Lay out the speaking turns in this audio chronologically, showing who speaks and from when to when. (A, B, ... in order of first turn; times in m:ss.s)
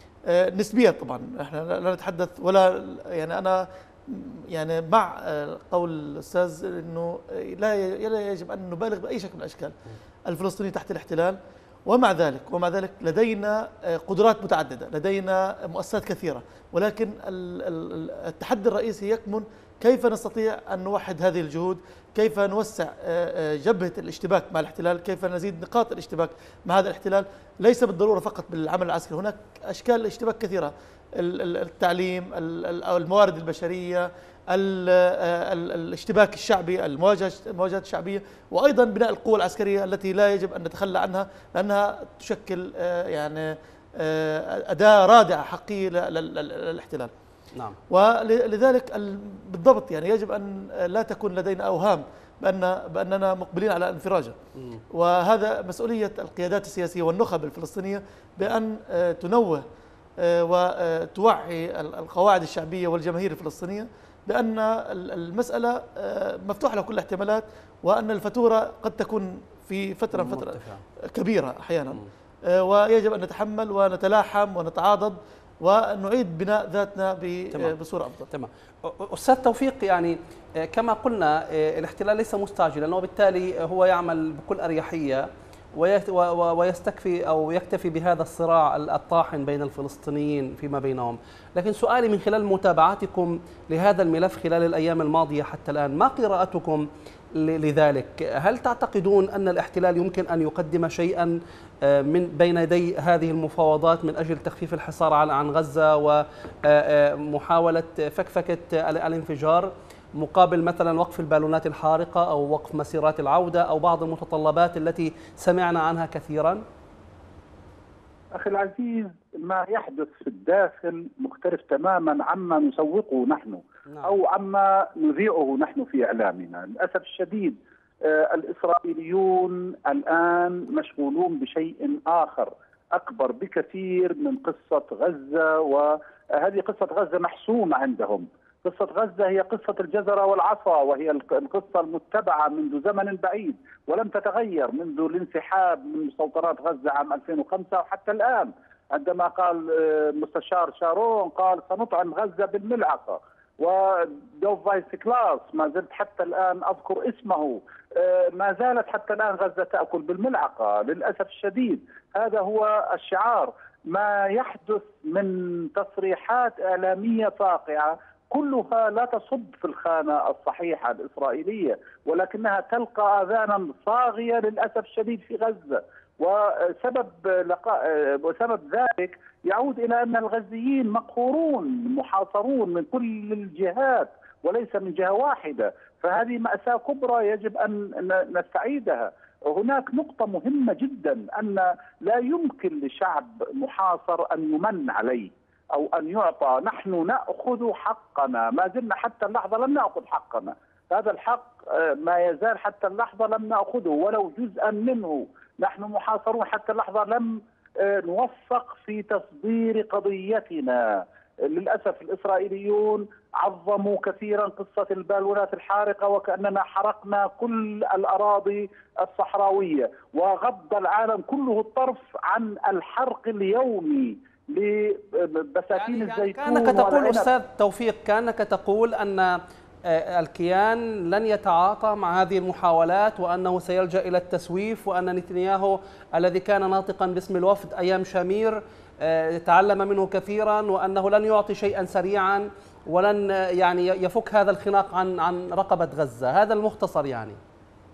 0:00.3-0:09.8 A
0:10.3-0:47.1 A
0:47.5-0:47.8 B
0:47.9-0:54.4 A
0:54.6-0:54.8 B
0:54.9-0:59.6 A
1:00.2-1:10.6 A
1:10.1-1:10.8 B
1:11.1-1:18.3 A
1:18.3-1:56.6 B
1:58.3-3:47.3 C
2:03.9-2:04.1 B
3:45.7-4:07.4 B